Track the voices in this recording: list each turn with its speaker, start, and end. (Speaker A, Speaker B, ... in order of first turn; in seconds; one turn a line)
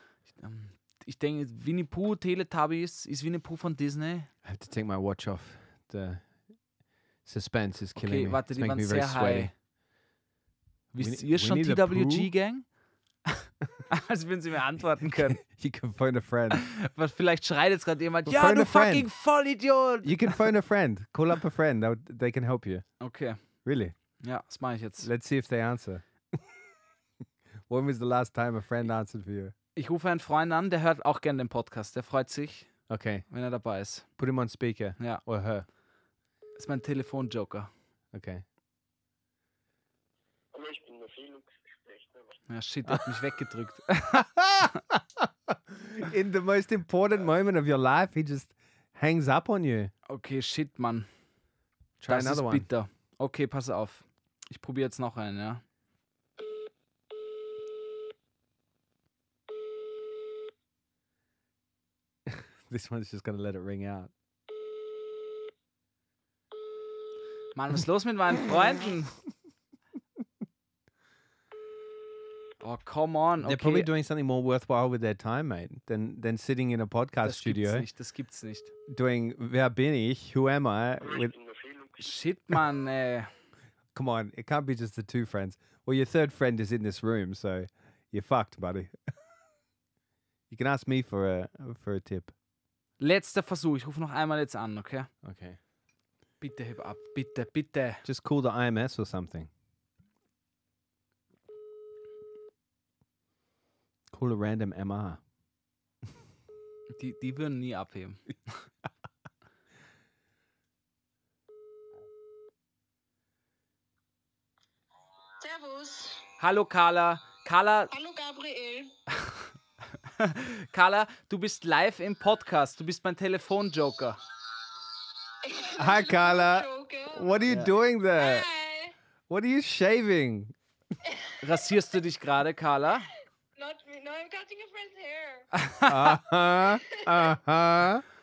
Speaker A: 0.3-4.3
Speaker B: 4.4-6.2
Speaker B: 7.2-9.5
Speaker A: 8.0-9.5
Speaker A: 10.9-12.7
Speaker B: 11.0-12.3
Speaker A: 13.9-15.4
Speaker B: 15.1-16.6
Speaker A: 16.5-20.5
Speaker B: 18.3-19.1
Speaker B: 20.0-22.9
Speaker A: 23.0-23.4
Speaker B: 23.6-23.9
Speaker A: 24.2-25.1
Speaker B: 25.0-26.0
Speaker B: 27.7-29.5
Speaker A: 29.8-32.7
Speaker B: 32.9-33.3
Speaker A: 33.3-34.1
Speaker B: 34.2-35.7
Speaker A: 36.6-37.7
Speaker B: 38.1-38.4
Speaker C: 40.5-42.4
Speaker A: 42.5-44.3
Speaker B: 44.1-49.9
Speaker A: 50.1-51.1
Speaker B: 52.0-52.7
Speaker A: 52.1-55.6
Speaker B: 62.3-64.1
Speaker A: 67.5-69.1
Speaker A: 72.6-73.9
Speaker B: 73.4-77.9
Speaker A: 77.2-78.7
Speaker B: 78.9-81.3
Speaker C: 81.0-82.1
Speaker A: 82.0-83.3
Speaker B: 83.9-88.9
Speaker B: 90.5-92.3
Speaker A: 93.0-95.1
Speaker B: 95.2-95.6
Speaker A: 96.4-98.0
Speaker B: 98.0-99.5
Speaker B: 104.1-105.2
Speaker A: 107.0-108.6
Speaker D: 115.4-116.2
Speaker A: 116.4-117.9
Speaker D: 117.9-118.9
Speaker A: 120.2-124.2
Speaker D: 125.4-127.4
Speaker B: 125.8-128.5
Speaker D: 128.2-128.9
Speaker B: 129.3-130.6
Speaker A: 131.4-133.1
Speaker D: 133.6-135.5
Speaker A: 135.6-136.1
Speaker B: 135.9-138.0
Speaker D: 136.6-137.0